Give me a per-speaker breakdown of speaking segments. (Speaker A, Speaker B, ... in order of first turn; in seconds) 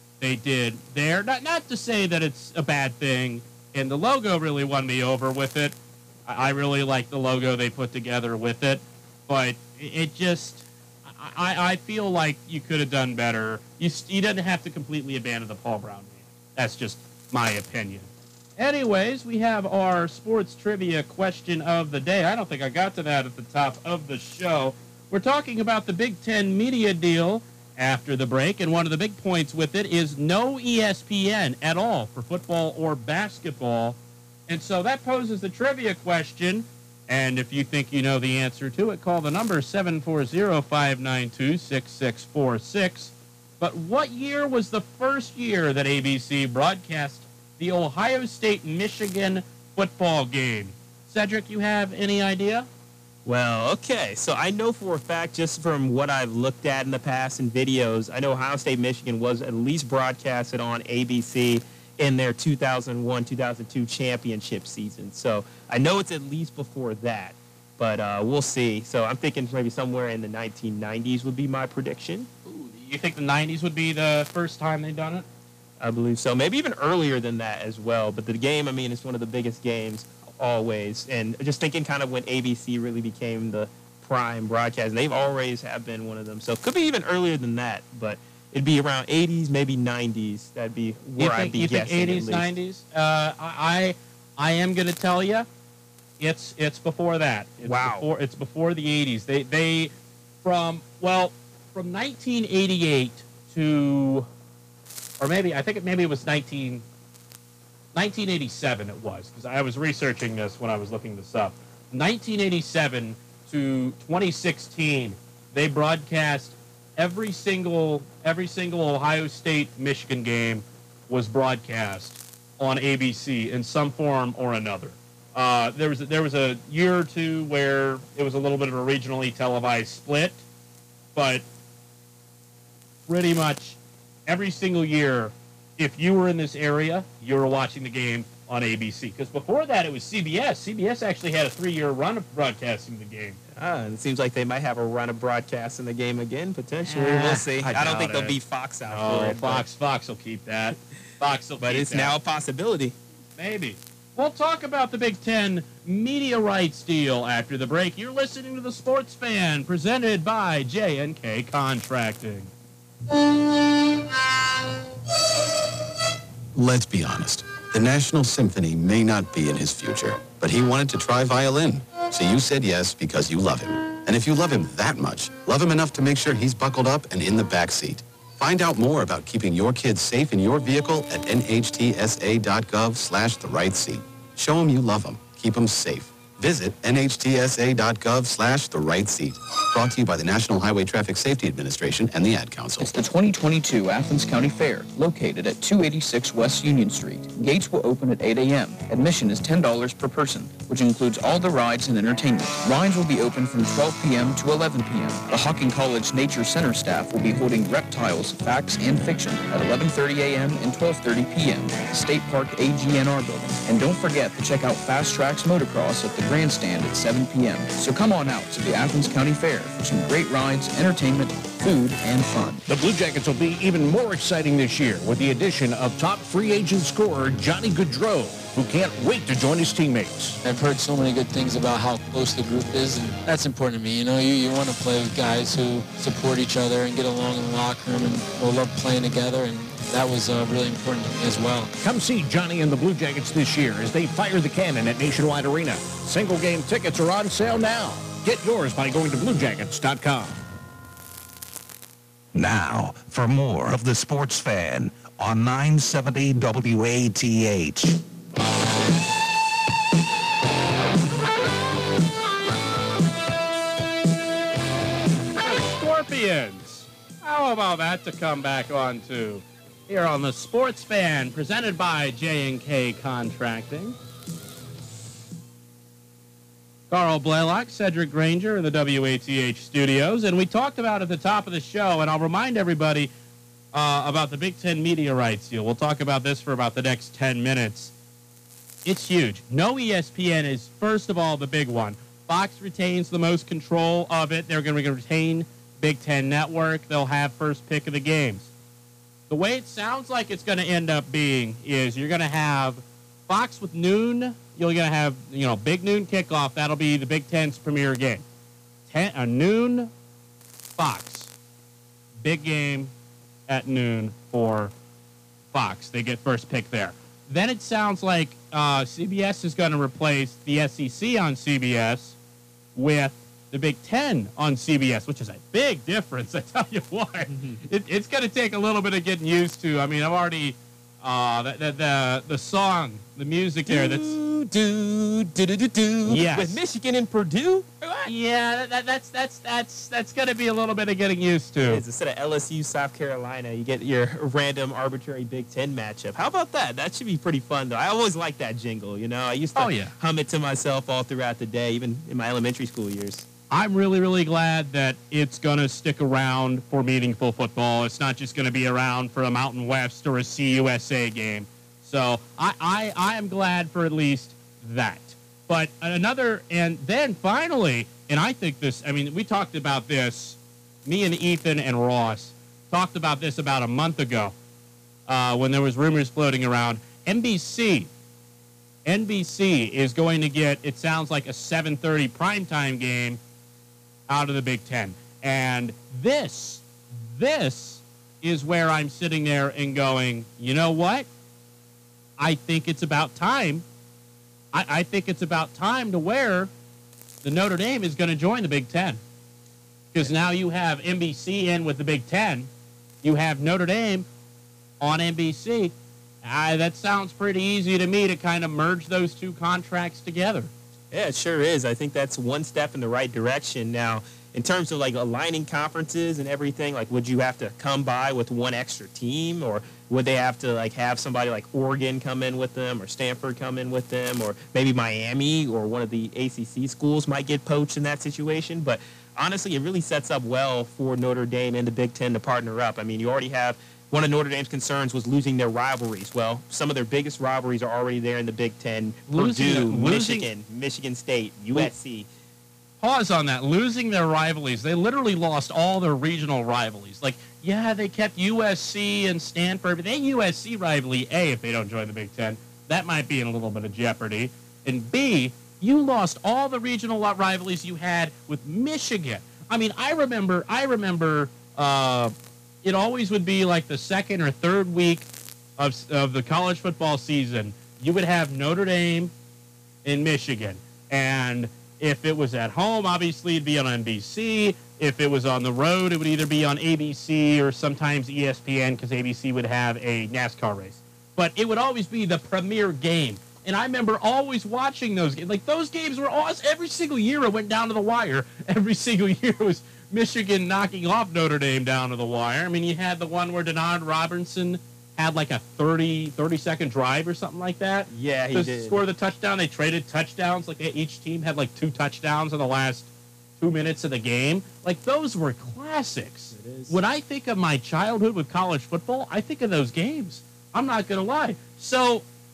Speaker A: 0.2-34.0, 34.5-52.7, 72.5-75.2, 91.2-95.5, 96.2-99.9, 100.4-104.3, 105.2-106.8, 107.9-130.4, 131.1-131.4, 133.1-143.4, 146.9-148.4, 148.9-152.1, 153.4-162.5, 265.4-274.0, 276.9-283.1, 283.7-287.9, 288.8-298.5, 299.3-308.2, 308.9-309.9, 310.8-311.3, 312.2-312.9, 313.5-314.7, 315.5-322.2, 322.8-334.2, 336.1-336.6, 338.0-341.8, 349.6-349.9, 353.5-374.3, 375.1-377.9, 378.8-383.2, 384.1-391.1, 392.2-393.6, 394.5-396.5, 397.2-399.0, 399.9-402.5, 403.0-404.1, 404.8-405.7, 406.2-410.5, 439.1-440.3, 442.8-465.1, 465.6-469.1, 469.8-512.0
Speaker B: 53.2-72.3, 75.8-92.5, 97.6-98.1, 143.6-149.6, 151.6-153.0, 327.3-327.6, 333.7-338.1, 341.7-353.3, 410.9-442.1, 497.9-498.8, 506.3-506.8
Speaker C: 166.5-192.9
Speaker D: 192.8-222.6
Speaker E: 222.7-230.4, 241.8-250.4
Speaker F: 230.4-241.7
Speaker G: 252.3-258.0